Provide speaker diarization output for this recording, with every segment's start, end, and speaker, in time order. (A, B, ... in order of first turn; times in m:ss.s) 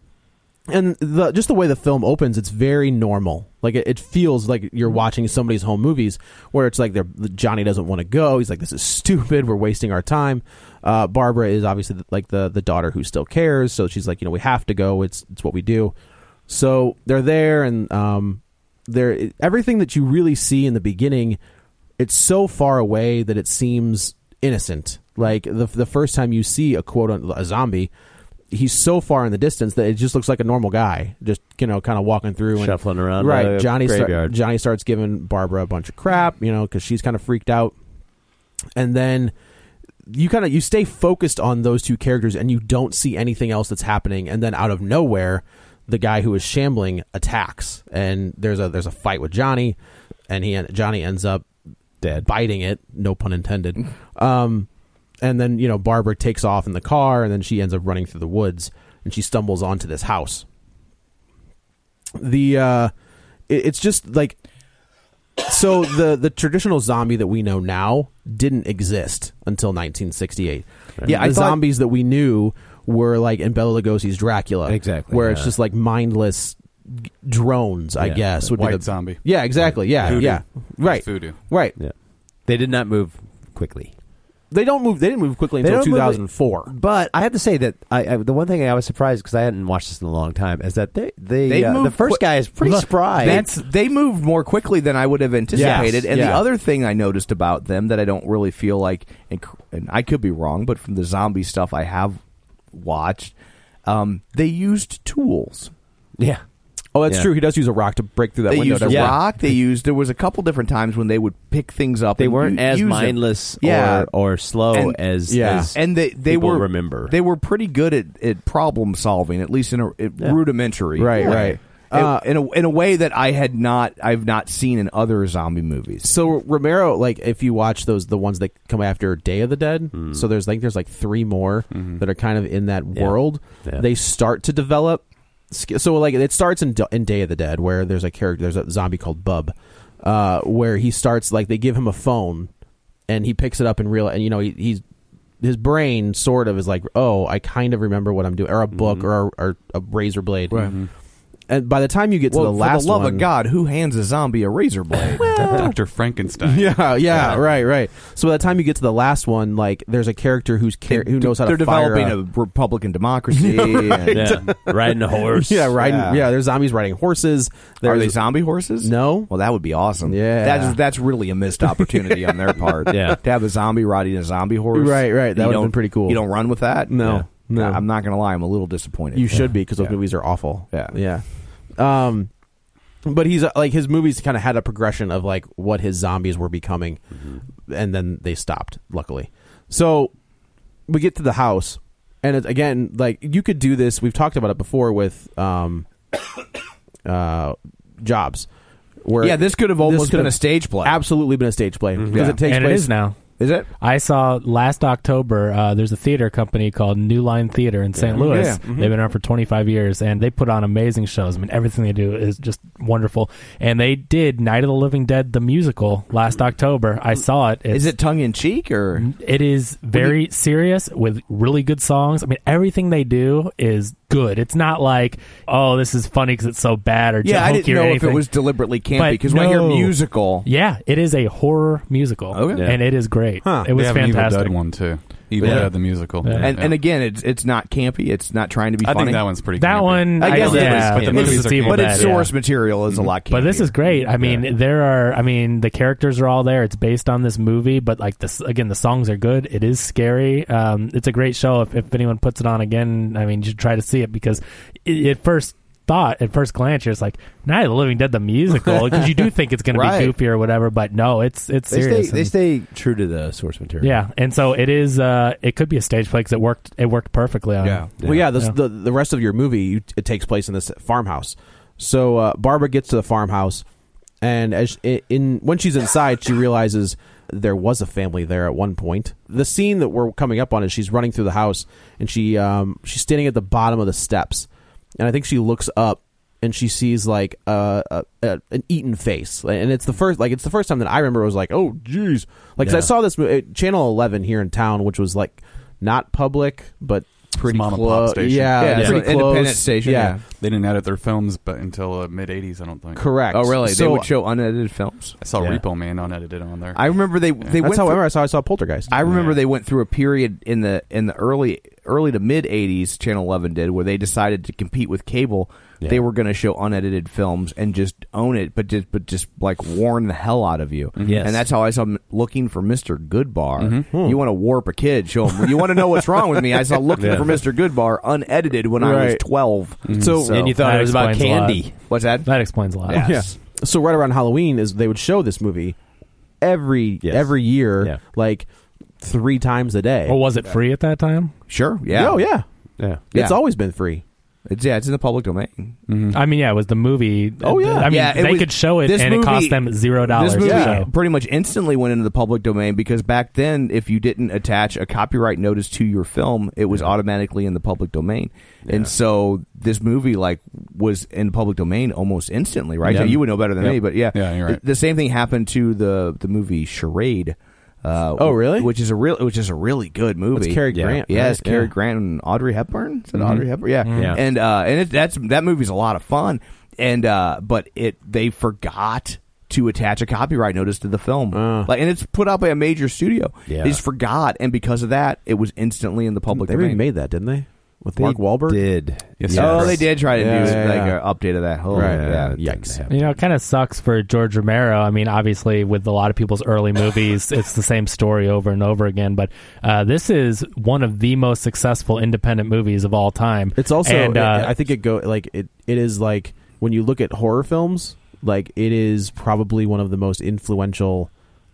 0:00.7-0:15.9 A
0:16.5-0:21.4 A
0:22.0-0:27.9 A
0:28.5-0:37.8 A
0:32.6-0:34.3 B
0:38.8-0:39.3 A
0:40.1-0:49.8 A
0:50.3-0:51.5 A
0:52.2-0:54.7 A
0:55.2-1:00.5 A
1:02.2-1:02.9 A
1:03.5-1:04.4 A
1:05.4-1:21.8 A
1:11.0-1:11.4 B
1:11.1-1:11.6 C
1:14.7-1:15.5 B
1:18.0-1:18.4 B
1:18.5-1:21.4 D
1:19.6-1:20.4 B
1:22.5-1:23.9 B
1:24.5-1:26.7 A
1:25.6-1:33.5 B
1:31.4-1:42.2 C
1:32.6-1:33.6 E
1:35.5-1:36.4 A
1:35.5-1:35.9 B
1:42.7-1:43.3 C
1:43.9-1:45.7 C
1:46.2-1:46.4 B
1:47.0-1:49.2 A
1:48.5-1:54.1 C
1:48.9-1:49.2 B
1:52.2-1:57.1 B
1:54.7-1:55.0 C
1:55.3-1:55.7 A
1:55.7-2:06.1 C
2:01.0-2:02.3 A
2:01.1-2:01.5 B
2:06.0-2:22.5 A
2:09.9-2:10.3 B
2:11.7-2:12.0 D
2:13.0-2:13.9 B
2:23.1-2:24.8 A
2:25.4-2:30.7 A
2:28.7-2:29.1 B
2:30.5-2:30.9 D
2:31.5-2:33.3 A
2:32.3-2:35.3 C
2:35.2-2:35.8 A
2:35.4-2:36.8 D
2:36.4-2:42.2 A
2:37.1-2:37.4 B
2:40.9-2:44.4 C
2:43.3-2:48.2 A
2:44.1-2:45.8 B
2:45.8-2:46.3 C
2:47.8-2:59.9 C
2:48.8-2:49.3 A
2:50.0-2:50.8 A
2:52.9-2:53.2 B
2:54.7-2:56.2 A
2:56.9-2:57.8 A
2:59.1-3:01.2 A
3:01.8-3:02.3 A
3:03.0-3:07.0 A
3:07.2-3:07.4 B
3:07.7-3:10.1 A
3:10.9-3:15.9 A
3:17.0-3:18.5 A
3:19.0-3:22.9 A
3:19.2-3:21.0 C
3:22.0-3:22.3 B
3:22.1-3:22.4 C
3:22.4-3:23.2 E
3:23.4-3:23.7 C
3:23.8-3:37.9 E
3:28.0-3:28.3 B
3:28.2-3:28.9 A
3:28.2-3:28.6 C
3:37.7-3:39.1 C
3:39.0-3:48.3 E
3:47.2-3:50.5 C
3:48.9-3:49.9 E
3:50.4-3:54.6 E
3:52.3-3:52.7 C
3:52.5-3:52.8 B
3:53.4-3:53.7 A
3:53.7-3:56.8 D
3:55.4-3:56.5 B
3:56.2-3:56.5 E
3:56.4-3:59.2 C
3:58.8-4:02.3 D
3:59.6-4:02.3 E
4:00.2-4:03.7 C
4:00.4-4:01.3 B
4:03.3-4:22.3 E
4:04.2-4:04.4 B
4:19.7-4:20.1 C
4:21.7-4:24.0 B
4:23.8-4:28.5 E
4:27.6-4:27.9 C
4:28.0-4:28.3 B
4:28.0-4:33.6 A
4:34.2-4:44.5 A
4:45.0-5:00.2 A
4:52.6-4:52.9 B
4:57.4-4:58.7 D
4:58.6-5:00.2 C
4:58.7-4:59.0 B
5:00.4-5:03.1 D
5:03.0-5:04.1 A
5:03.3-5:05.2 C
5:05.2-5:07.6 D
5:05.4-5:05.6 B
5:06.8-5:08.0 C
5:07.6-5:09.0 A
5:08.9-5:30.5 C
5:09.0-5:09.4 B
5:21.0-5:21.3 D
5:21.0-5:21.4 B
5:23.6-5:23.9 D
5:23.9-5:24.2 A
5:27.0-5:27.4 B
5:28.8-5:29.2 A
5:29.9-5:30.3 D
5:29.9-5:30.5 A
5:30.3-5:31.8 B
5:30.6-5:33.0 E
5:31.9-5:32.3 C
5:32.8-5:33.4 C
5:32.9-5:35.8 A
5:36.4-5:38.5 A
5:37.0-5:38.0 B
5:39.0-5:40.2 A
5:40.1-5:41.3 E
5:41.5-5:42.2 C
5:41.9-5:42.4 A
5:43.0-5:44.0 A
5:44.5-5:45.8 C
5:45.9-5:46.2 D
5:46.1-5:50.9 E
5:47.4-5:47.9 A
5:47.8-6:26.8 C
5:50.4-5:50.8 A
6:02.9-6:03.2 A
6:02.9-6:03.7 B
6:03.6-6:04.6 D
6:08.2-6:08.7 A
6:10.3-6:11.7 A
6:10.7-6:11.0 B
6:13.2-6:13.5 D
6:13.9-6:14.2 B
6:21.3-6:21.7 A
6:23.5-6:23.8 B
6:26.3-6:28.8 A
6:28.0-6:30.7 B
6:29.2-6:29.9 D
6:29.3-6:32.4 C
6:29.4-6:31.0 A
6:31.7-6:32.8 A
6:31.7-6:33.2 B
6:32.9-6:44.6 E
6:43.6-6:51.1 A